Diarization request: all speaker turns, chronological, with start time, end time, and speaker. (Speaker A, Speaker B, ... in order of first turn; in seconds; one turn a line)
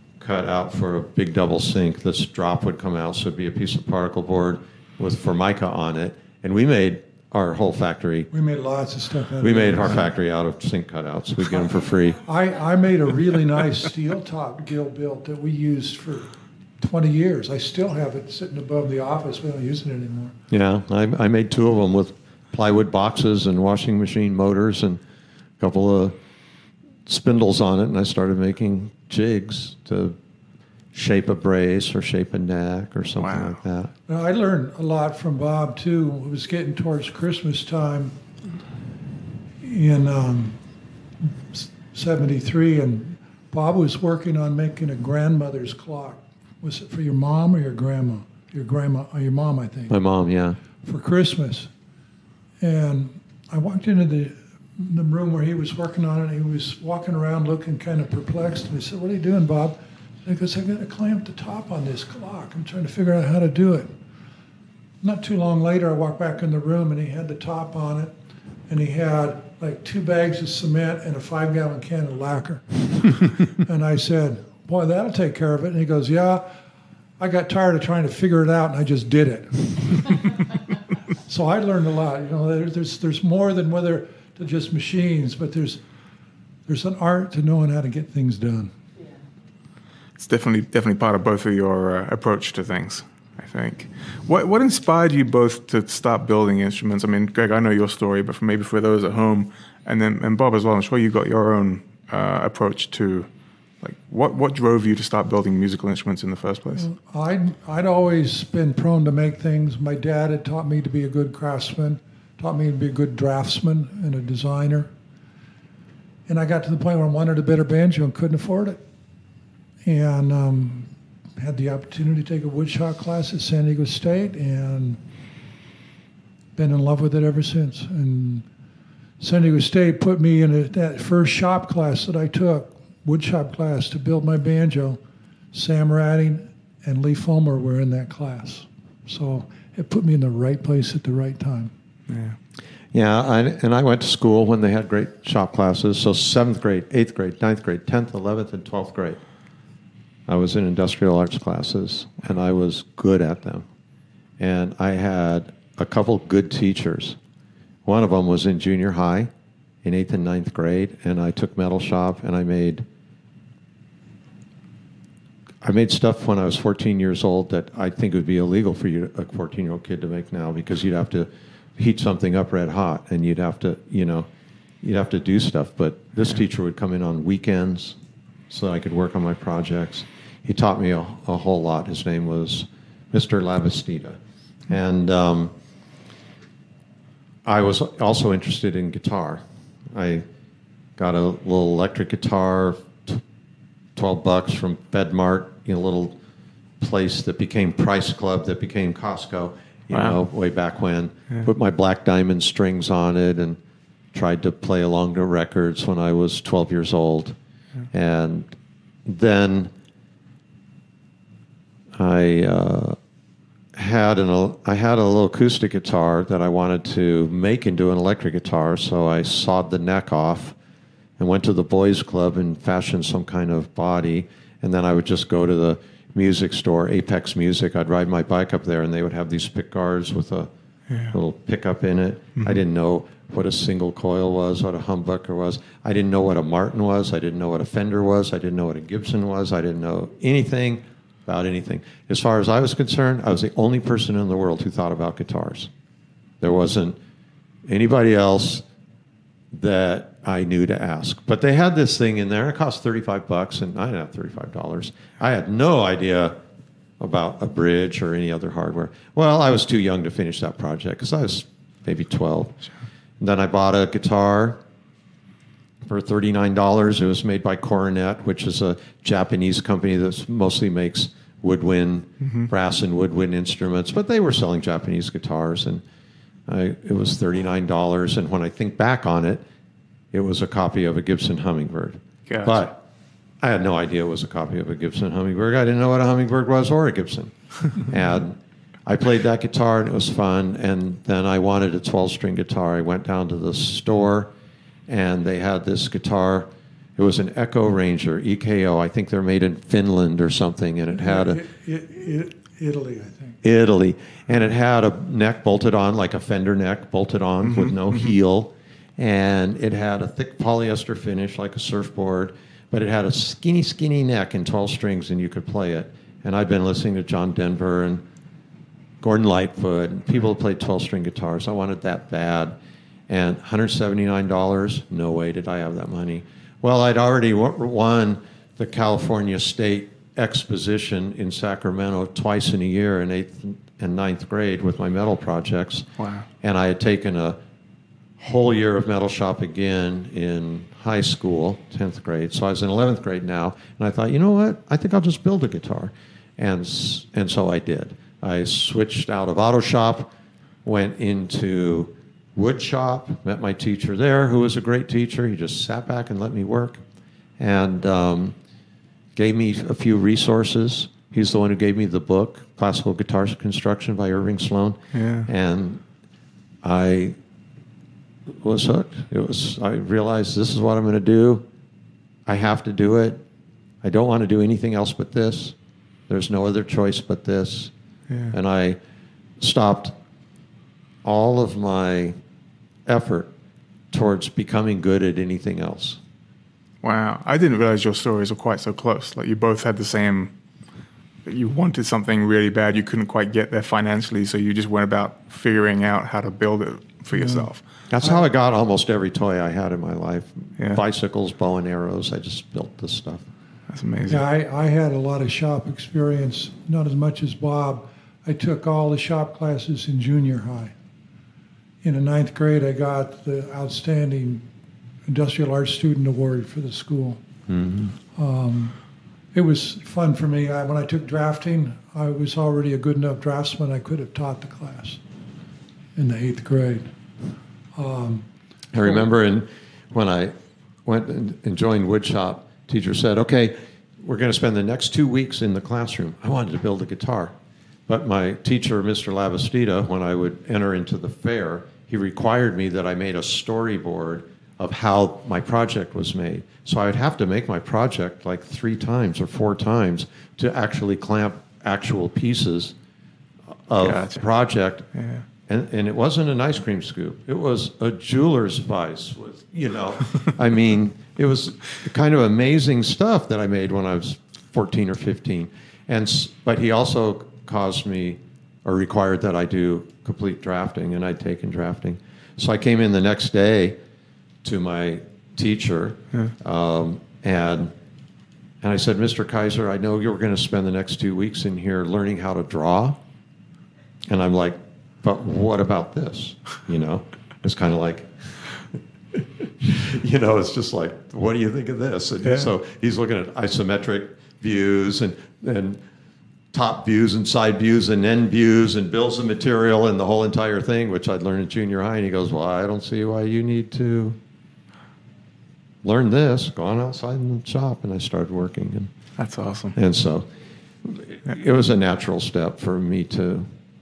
Speaker A: 0.2-8.3
Speaker B: 8.3-10.1
Speaker A: 9.4-12.2
Speaker B: 12.2-20.3
Speaker A: 20.5-25.0
Speaker A: 25.6-26.1
Speaker A: 27.1-30.1
Speaker A: 30.9-33.9
Speaker C: 33.2-33.6
Speaker B: 34.1-38.1
Speaker B: 39.6-40.6
Speaker B: 41.5-50.0
Speaker A: 49.9-50.6
Speaker B: 50.8-51.7
Speaker B: 52.6-63.9
Speaker B: 65.0-68.1
Speaker B: 68.7-76.5
Speaker B: 77.2-80.3
Speaker B: 81.2-85.8
Speaker B: 86.7-88.7
Speaker C: 90.2-103.3
Speaker C: 103.8-106.9
Speaker B: 106.8-114.9
Speaker B: 116.3-118.8
Speaker B: 119.8-125.0
Speaker B: 126.5-128.4
Speaker B: 129.2-135.0
Speaker B: 135.5-141.7
Speaker C: 142.1-142.3
Speaker A: 142.9-149.2
Speaker A: 150.3-153.7
Speaker A: 154.4-157.2
Speaker A: 157.8-159.3
Speaker A: 159.8-162.8
Speaker A: 165.6-174.3
Speaker A: 174.8-178.0
Speaker A: 178.5-185.5
Speaker A: 187.4-190.2
Speaker A: 191.0-193.2
Speaker A: 193.9-196.2
Speaker A: 196.8-203.6
Speaker C: 199.9-200.2
Speaker A: 204.1-207.3
Speaker A: 207.9-208.5
Speaker A: 209.1-209.7
Speaker A: 211.9-213.0
Speaker A: 213.7-220.6
Speaker A: 221.2-230.5
Speaker A: 231.1-245.7
Speaker A: 246.4-247.0
Speaker A: 247.7-248.7
Speaker A: 249.5-256.4
Speaker A: 257.0-262.6
Speaker A: 263.2-264.6
Speaker A: 265.8-275.8
Speaker A: 276.5-279.4
Speaker A: 280.1-282.8
Speaker C: 282.3-282.6
Speaker A: 283.4-294.3
Speaker A: 294.9-301.4
Speaker B: 300.9-303.4
Speaker A: 303.4-318.0
Speaker C: 307.5-307.9
Speaker A: 319.0-322.6
Speaker A: 323.1-335.9
Speaker C: 336.0-336.2
Speaker A: 336.4-337.4
Speaker A: 338.2-350.1
Speaker A: 350.6-356.8
Speaker A: 357.4-358.4
Speaker A: 359.1-365.8
Speaker C: 364.9-365.3
Speaker A: 366.6-367.2
Speaker A: 368.3-371.4
Speaker A: 372.2-373.2
Speaker A: 373.8-375.6
Speaker A: 376.1-377.7
Speaker A: 378.3-378.8
Speaker A: 379.4-379.9
Speaker A: 381.0-382.1
Speaker A: 382.9-383.3
Speaker A: 383.9-386.0
Speaker C: 386.8-390.3
Speaker C: 391.2-397.6
Speaker B: 397.1-397.5
Speaker A: 397.9-403.2
Speaker C: 403.7-404.2
Speaker B: 404.1-410.7
Speaker B: 411.8-414.4
Speaker B: 415.1-417.2
Speaker A: 417.5-417.9
Speaker B: 418.1-418.8
Speaker B: 419.3-425.0
Speaker B: 425.9-426.9
Speaker B: 427.8-428.2
Speaker A: 428.7-430.3
Speaker A: 430.8-437.3
Speaker A: 437.9-452.7
Speaker A: 453.7-454.9
Speaker C: 453.8-454.2
Speaker C: 454.9-455.2
Speaker A: 455.5-473.8
Speaker A: 474.4-477.7
Speaker A: 478.6-483.0
Speaker A: 484.1-495.8
Speaker C: 492.2-492.5
Speaker A: 496.5-504.2
Speaker A: 505.8-508.9
Speaker C: 509.2-509.8
Speaker A: 509.7-510.2
Speaker A: 510.8-513.5